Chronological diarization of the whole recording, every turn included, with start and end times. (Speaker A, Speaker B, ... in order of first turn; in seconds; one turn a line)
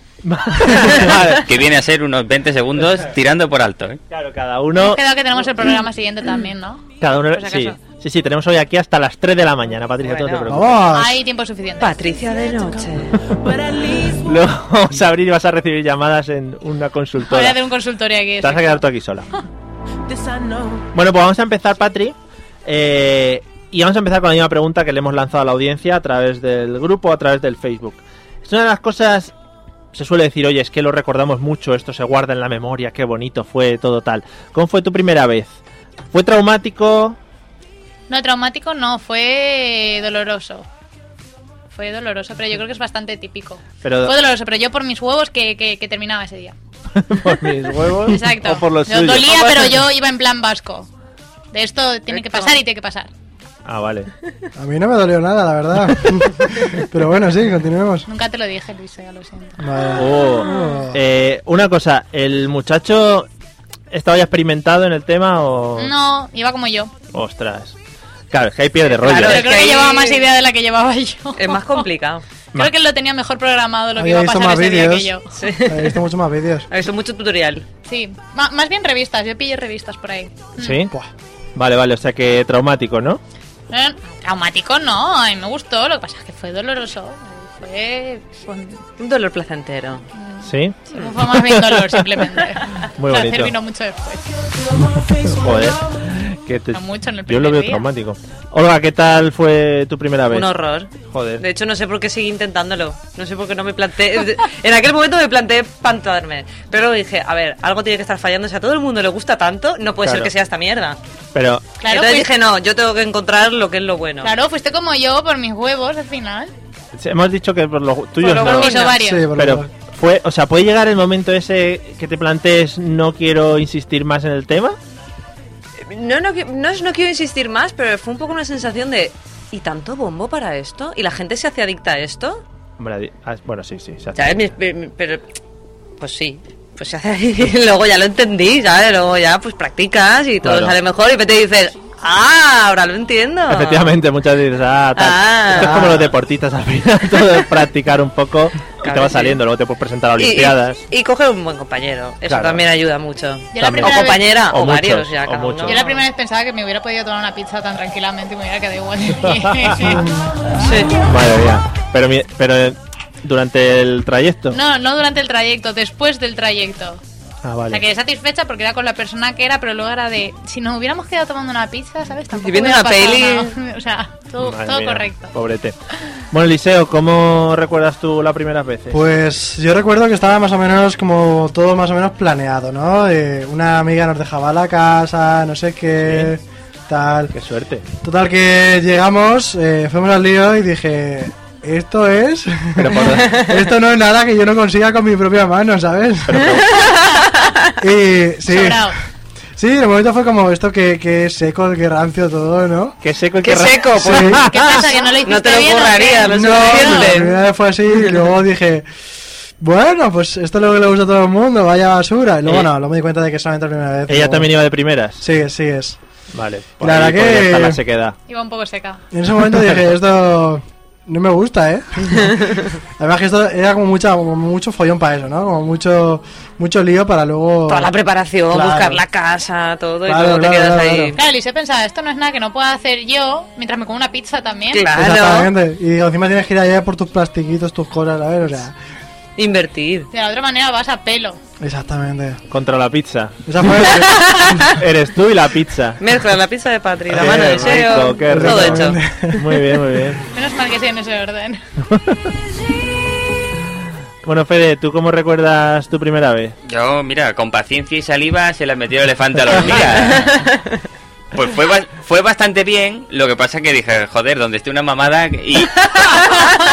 Speaker A: 0.2-1.5
Speaker B: 1.3-4.0
Speaker A: 4.1-5.0
Speaker C: 4.8-6.8
Speaker A: 7.0-10.8
Speaker D: 7.4-7.7
Speaker D: 10.0-10.5
Speaker E: 10.5-11.2
Speaker C: 10.9-12.0
Speaker D: 11.8-13.2
Speaker A: 13.2-17.6
Speaker C: 17.2-18.8
Speaker A: 18.4-19.3
Speaker A: 20.9-29.3
Speaker A: 29.9-35.6
Speaker A: 36.1-37.2
Speaker C: 38.1-40.7
Speaker C: 41.7-46.5
Speaker A: 43.8-44.1
Speaker A: 46.9-49.8
Speaker C: 48.0-50.9
Speaker D: 49.3-49.7
Speaker C: 51.5-53.1
Speaker A: 53.6-54.1
Speaker E: 54.6-58.1
Speaker C: 58.1-59.6
Speaker E: 59.6-61.0
Speaker A: 60.0-63.3
Speaker A: 63.9-65.9
Speaker C: 65.8-66.9
Speaker A: 67.1-67.8
Speaker A: 68.3-69.5
Speaker D: 68.9-70.3
Speaker C: 69.2-71.8
Speaker D: 71.4-72.2
Speaker C: 72.5-75.3
Speaker E: 74.0-75.1
Speaker D: 75.3-76.0
Speaker E: 75.7-76.7
Speaker D: 76.7-77.7
Speaker C: 77.9-80.8
Speaker A: 80.6-80.9
Speaker A: 81.6-83.2
Speaker C: 83.7-88.8
Speaker D: 89.0-90.1
Speaker C: 90.2-94.3
Speaker A: 90.4-92.2
Speaker A: 93.0-93.5
Speaker A: 94.9-101.5
Speaker C: 96.7-97.9
Speaker D: 100.3-111.0
Speaker A: 110.0-110.3
Speaker A: 111.3-111.7
Speaker C: 111.8-112.3
Speaker D: 111.9-114.3
Speaker C: 114.2-116.5
Speaker A: 117.0-118.8
Speaker D: 118.2-119.0
Speaker C: 118.4-119.3
Speaker E: 119.0-119.7
Speaker A: 119.4-124.8
Speaker D: 125.8-132.4
Speaker A: 132.8-134.4
Speaker D: 134.2-135.2
Speaker D: 136.0-144.0
Speaker A: 140.4-140.8
Speaker A: 143.5-150.8
Speaker D: 145.0-146.1
Speaker E: 145.6-146.1
Speaker D: 148.8-149.4
Speaker D: 150.2-156.0
Speaker A: 152.3-152.6
Speaker C: 153.5-154.3
Speaker A: 153.6-155.8
Speaker C: 155.6-160.0
Speaker A: 159.2-160.0
Speaker D: 160.6-161.0
Speaker A: 161.0-164.6
Speaker C: 164.5-167.0
Speaker A: 167.4-167.8
Speaker C: 167.7-175.3
Speaker D: 172.4-173.6
Speaker A: 174.4-175.8
Speaker A: 176.3-179.0
Speaker E: 178.9-187.3
Speaker A: 186.0-186.3
Speaker A: 187.3-187.8
Speaker E: 188.0-196.6
Speaker A: 192.8-193.5
Speaker A: 196.3-196.8
Speaker D: 196.7-197.7
Speaker E: 197.8-198.9
Speaker C: 198.5-199.0
Speaker E: 199.6-203.0
Speaker A: 203.0-204.9
Speaker D: 203.4-207.4
Speaker E: 204.0-204.4
Speaker C: 204.5-207.1
Speaker E: 206.3-208.8
Speaker E: 209.6-214.5
Speaker A: 214.1-215.2
Speaker E: 215.2-216.0
Speaker A: 216.3-218.2
Speaker E: 216.8-217.8
Speaker C: 218.3-219.0
Speaker E: 219.1-227.9
Speaker D: 227.7-231.2
Speaker E: 228.5-229.0
Speaker E: 230.1-231.2
Speaker C: 231.2-234.9
Speaker D: 234.7-235.5
Speaker E: 234.9-238.7
Speaker D: 239.4-240.1
Speaker C: 240.1-241.4
Speaker E: 241.6-242.4
Speaker A: 242.5-244.0
Speaker E: 243.5-244.7
Speaker D: 244.0-244.7
Speaker A: 244.7-246.0
Speaker D: 246.0-249.0
Speaker A: 247.1-250.2
Speaker E: 248.3-249.4
Speaker C: 250.3-251.6
Speaker A: 251.9-252.3
Speaker A: 254.2-256.6
Speaker B: 256.6-260.5
Speaker A: 259.5-259.8
Speaker D: 260.3-260.6
Speaker B: 261.3-266.6